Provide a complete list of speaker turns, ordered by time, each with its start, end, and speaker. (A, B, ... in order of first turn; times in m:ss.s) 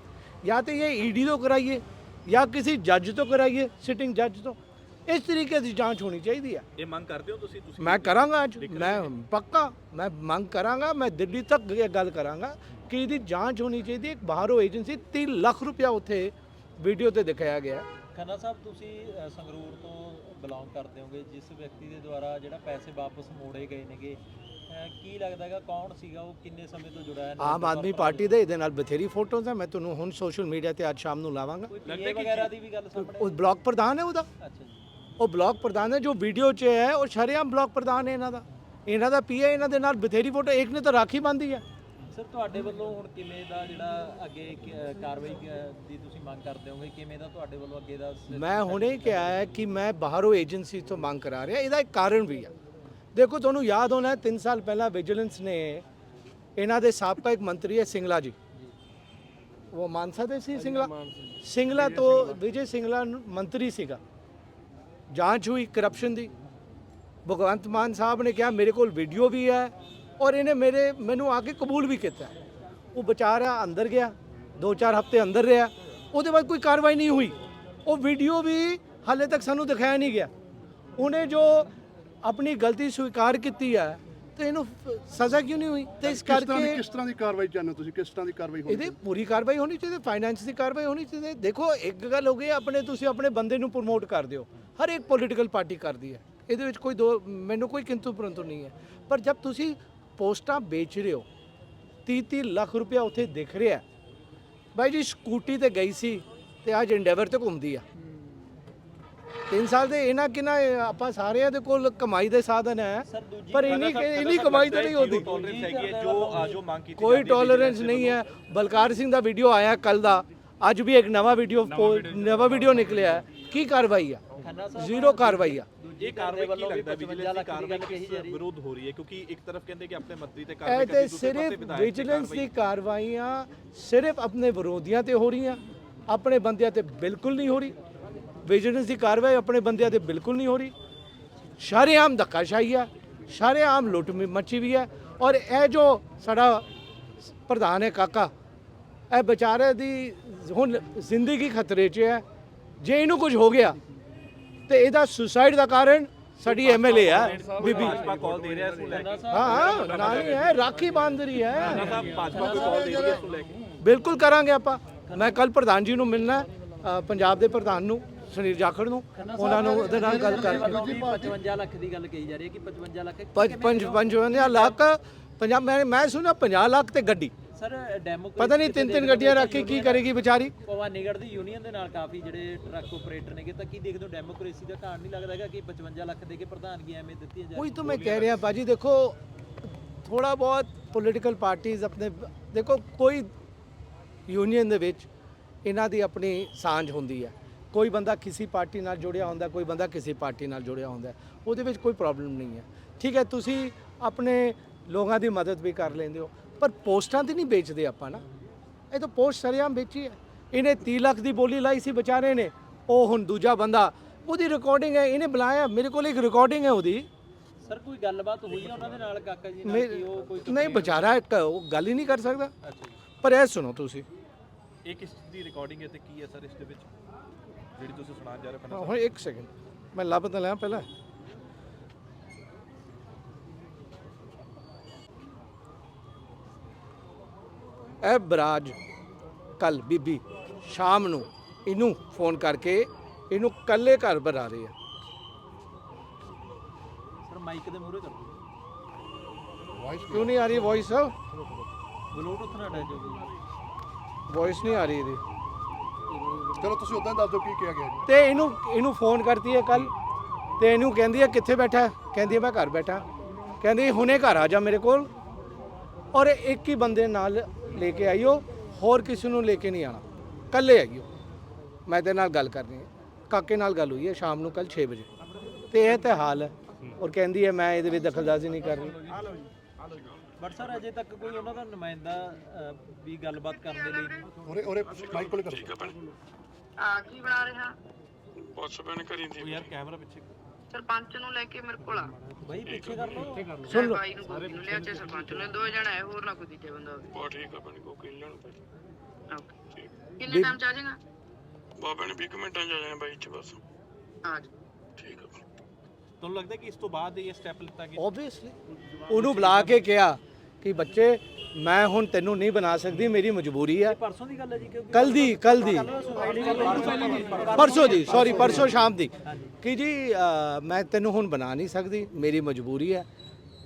0:00.4-0:06.6 A
0:06.8-0:09.1 B
0:07.8-0:17.9 A
0:18.1-0:28.3 C
0:27.4-0:31.7 A
0:31.7-0:33.5 C
0:31.8-0:32.5 B
0:33.0-0:34.3 A
0:34.4-0:34.9 C
0:35.2-0:41.6 A
0:42.1-0:49.3 C
0:48.3-0:52.5 A
0:53.2-0:55.8 A
0:56.6-0:58.4 A
0:59.7-1:04.0 A
1:05.1-1:06.3 A
1:07.2-1:12.3 A
1:12.9-1:20.3 A
1:21.0-1:21.7 A
1:22.2-1:26.8 A
1:26.0-1:29.0 D
1:28.7-1:41.3 A
1:42.1-1:43.8 A
1:44.8-1:47.8 A
1:49.5-1:55.3 A
1:53.0-1:53.9 C
1:53.6-1:58.2 B
1:54.6-1:56.6 C
1:57.0-2:04.2 A
2:04.4-2:08.4 C
2:04.8-2:05.7 A
2:06.0-2:12.5 B
2:10.6-2:17.8 A
2:18.4-2:20.7 A
2:21.6-2:26.6 A
2:27.2-2:28.3 A
2:29.1-2:32.2 A
2:32.8-2:33.8 A
2:34.7-2:38.1 A
2:36.5-2:40.8 B
2:38.8-2:40.2 C
2:39.3-2:42.0 A
2:41.5-2:43.6 B
2:42.0-2:43.2 C
2:42.2-2:43.2 D
2:43.8-2:50.8 A
2:45.1-2:45.4 C
2:49.2-2:54.8 C
2:53.4-2:57.3 A
2:57.5-3:00.1 C
2:58.4-3:00.5 A
3:00.6-3:07.9 C
3:07.6-3:13.3 A
3:07.9-3:08.4 B
3:14.3-3:15.1 A
3:15.6-3:28.2 A
3:28.9-3:37.1 A
3:37.6-3:41.0 C
3:39.6-3:42.5 A
3:42.6-3:43.0 C
3:43.2-3:44.0 A
3:44.8-3:46.9 B
3:47.8-3:49.1 B
3:48.7-3:50.9 A
3:58.0-3:58.8 A
3:59.6-4:04.7 A
4:07.3-4:08.4 C
4:09.8-4:10.6 D
4:10.1-4:11.1 A
4:12.1-4:13.4 C
4:14.3-4:15.2 A
4:16.5-4:18.0 D
4:18.1-4:19.9 A
4:20.6-4:23.0 A
4:23.6-4:25.1 A
4:26.1-4:31.1 A
4:31.9-4:35.1 A
4:35.7-4:39.0 A
4:40.4-4:44.2 C
4:43.5-4:44.2 E
4:44.4-4:46.0 D
4:45.1-4:46.0 F
4:46.8-4:47.8 E
4:48.4-4:49.7 F
4:49.4-4:50.3 B
4:50.7-4:52.3 E
4:52.3-4:53.8 C
4:52.6-4:53.2 F
4:53.6-4:57.1 E
4:53.6-4:54.0 A
4:57.1-4:58.6 F
4:59.3-5:01.0 E
5:00.3-5:00.6 A
5:01.8-5:03.6 F
5:04.2-5:04.5 E
5:05.0-5:05.4 F
5:06.2-5:08.0 B
5:08.0-5:08.6 A
5:09.1-5:14.0 A
5:09.1-5:09.8 B
5:13.8-5:18.2 C
5:14.9-5:15.9 A
5:16.7-5:18.6 B
5:17.5-5:23.1 A
5:19.2-5:19.6 C